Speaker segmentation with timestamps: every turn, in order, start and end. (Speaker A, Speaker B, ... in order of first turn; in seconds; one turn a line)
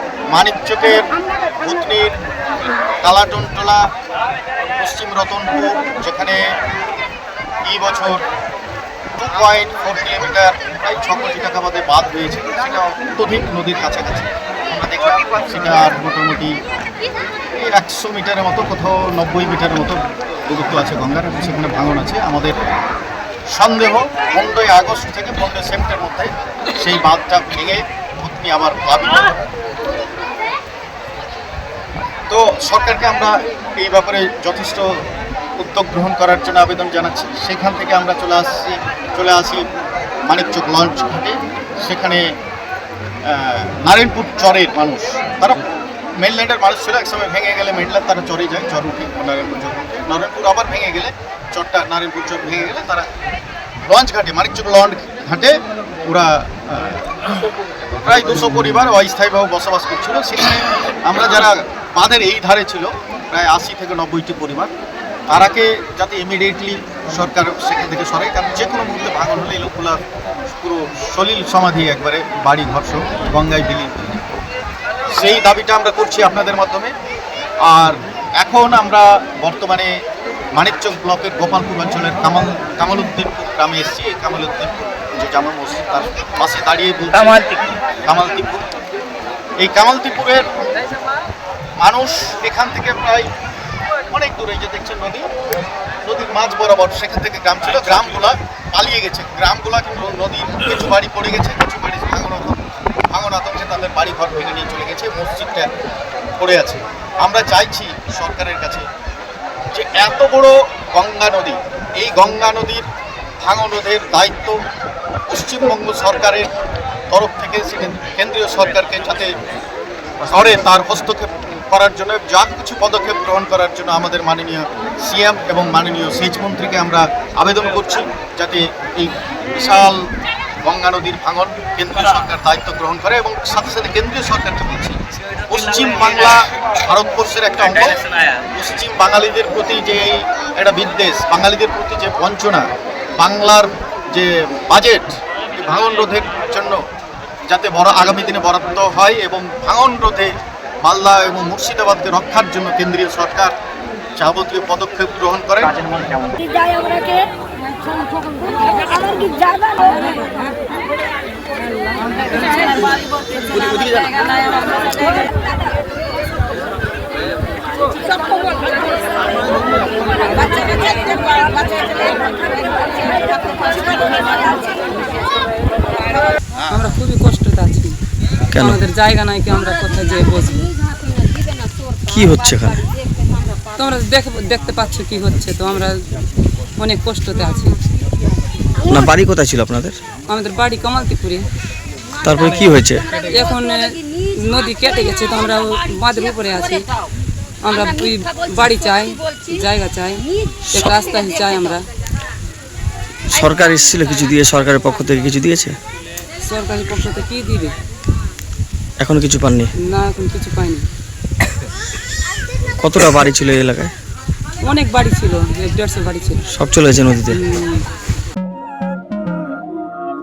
Speaker A: 0.3-1.1
Speaker A: 1.6-2.1
Speaker A: 3.0-3.8
Speaker A: 4.8-6.4
Speaker A: 7.6-8.2
Speaker A: 9.2-16.6
Speaker A: 17.5-22.6
Speaker A: 23.5-29.5
Speaker A: 32.3-34.9
Speaker A: 35.6-39.6
Speaker A: 40.2-42.4
Speaker A: 43.2-53.1
Speaker A: 53.9-57.2
Speaker A: 58.0-64.7
Speaker A: 65.3-74.2
Speaker A: 75.1-76.9
Speaker A: 77.6-79.9
Speaker A: 80.5-88.7
Speaker A: 89.6-90.5
Speaker A: 91.8-93.3
Speaker A: 94.1-95.3
Speaker A: 96.0-105.7
Speaker A: 106.4-108.9
Speaker A: 109.7-112.9
Speaker A: 113.4-114.6
Speaker A: 115.3-116.5
Speaker A: 117.1-119.3
Speaker A: 120.2-130.1
Speaker A: 130.6-142.7
Speaker A: 143.2-146.8
Speaker A: 147.5-153.5
Speaker A: 154.2-155.9
Speaker B: 170.3-171.9
Speaker B: 176.7-177.9
Speaker C: 178.5-178.8
Speaker B: 178.6-180.7
Speaker C: 182.1-182.8
Speaker B: 183.8-186.0
Speaker B: 186.8-187.8
Speaker C: 188.8-190.0
Speaker B: 190.3-191.5
Speaker C: 192.2-193.2
Speaker B: 193.3-196.8
Speaker B: 197.6-201.8
Speaker C: 203.3-205.8
Speaker B: 206.4-207.7
Speaker C: 209.0-209.7
Speaker B: 209.8-210.8
Speaker C: 212.8-213.9
Speaker B: 214.6-216.4
Speaker C: 216.5-217.4
Speaker B: 217.3-217.8